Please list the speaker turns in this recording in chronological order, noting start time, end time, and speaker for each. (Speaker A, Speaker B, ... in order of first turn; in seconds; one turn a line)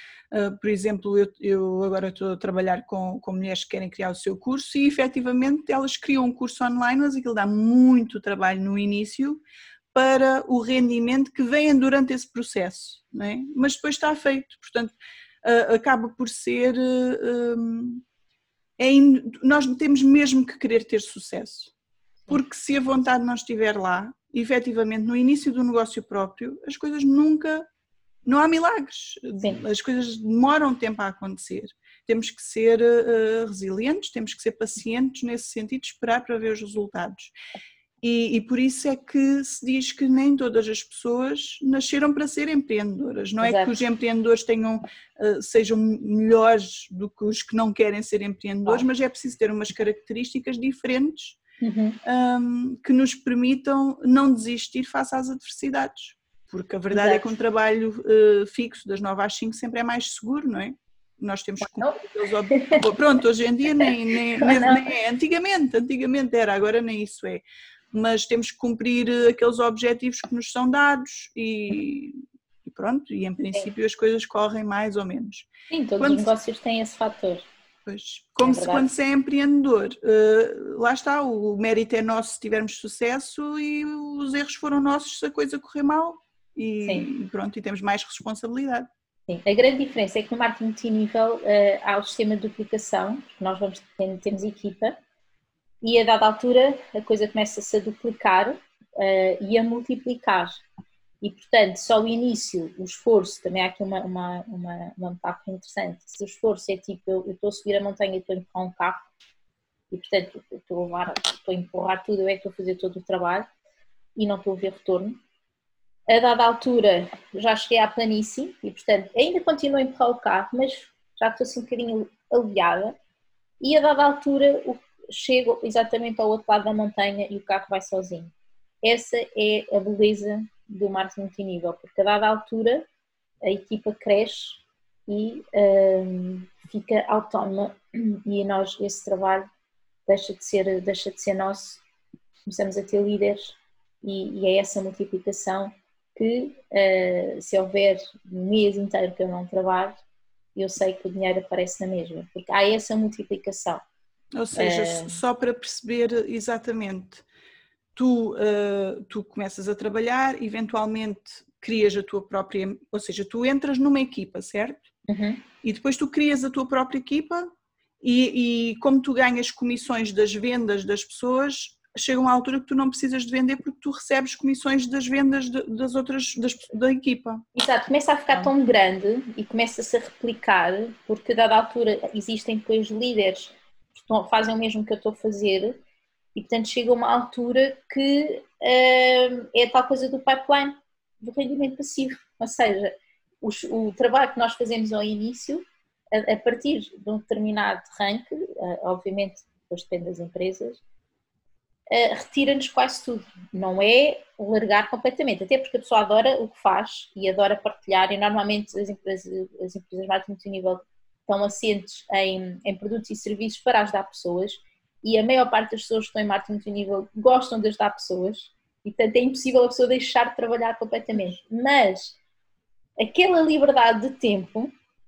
Speaker A: 0.3-9.4
Speaker A: 9.9-14.9
Speaker A: 15.4-18.0
Speaker A: 18.8-21.7
Speaker A: 22.3-27.7
Speaker A: 28.2-37.3
Speaker A: 38.0-51.4
Speaker B: 43.4-43.8
Speaker B: 51.6-52.0
Speaker A: 52.0-76.3
Speaker B: 56.9-57.3
Speaker B: 61.6-62.0
Speaker B: 62.5-62.9
Speaker B: 64.4-64.9
Speaker B: 75.7-77.4
Speaker A: 77.8-88.9
Speaker B: 78.4-78.8
Speaker B: 89.3-95.0
Speaker B: 95.8-100.6
Speaker B: 101.2-109.1
Speaker B: 109.9-113.5
Speaker B: 114.2-115.2
Speaker B: 116.1-123.0
Speaker B: 123.6-132.8
Speaker B: 133.4-139.5
Speaker B: 140.1-141.8
Speaker B: 142.4-150.0
Speaker B: 150.6-153.8
Speaker A: 154.3-157.2
Speaker B: 154.6-155.2
Speaker A: 157.9-164.9
Speaker B: 165.1-165.4
Speaker A: 165.6-167.5
Speaker A: 168.0-177.4
Speaker B: 177.5-185.8
Speaker B: 186.3-200.8
Speaker B: 201.9-222.2
Speaker B: 223.0-224.7